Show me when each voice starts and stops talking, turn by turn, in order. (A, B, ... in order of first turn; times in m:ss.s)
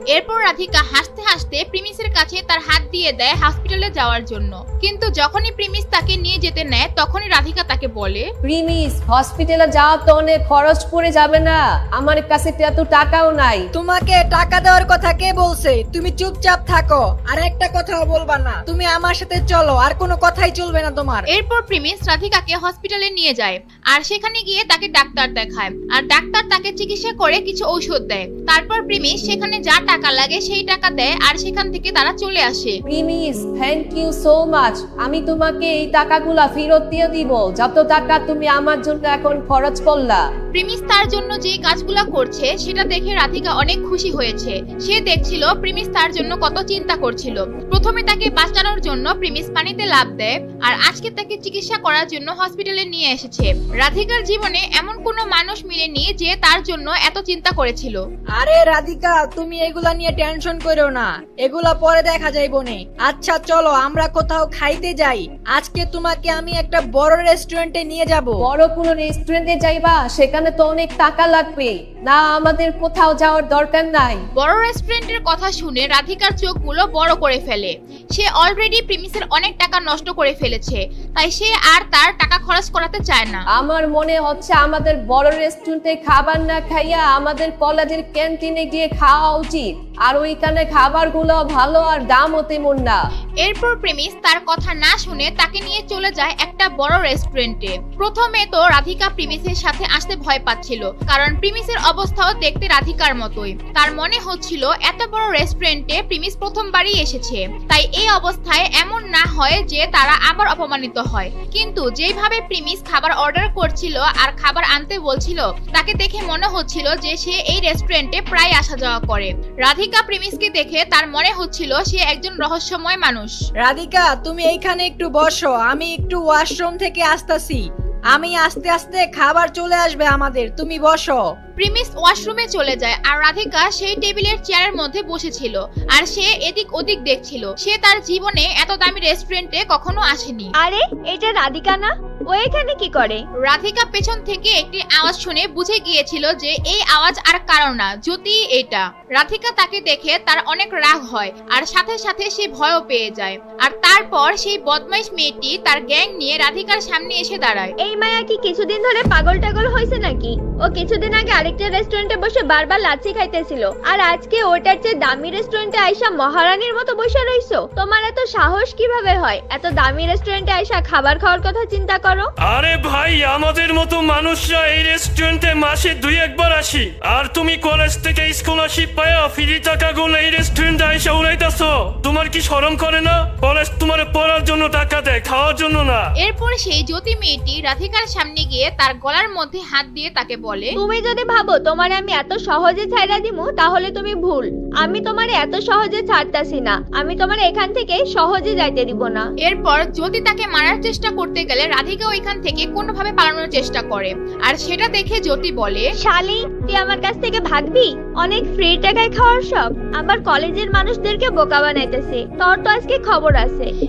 0:00.1-0:08.3 A
0:08.4-0:13.7 B
0:13.7-0:21.3 C
0:21.3-0:32.8 A
0:32.9-0:40.2 B
0:40.5-0:58.0 A
0:58.4-1:08.4 C
1:08.4-1:14.2 B
1:14.4-1:23.4 A
1:23.5-1:33.0 B
1:33.4-2:03.4 A
2:03.6-2:11.2 C
2:11.6-2:20.5 A
2:20.6-2:23.2 D
2:23.4-2:37.7 A
2:37.8-2:52.3 D
2:52.4-3:06.0 E
3:06.2-3:10.8 A
3:10.8-3:19.3 D
3:19.4-3:25.9 A
3:26.0-3:33.7 D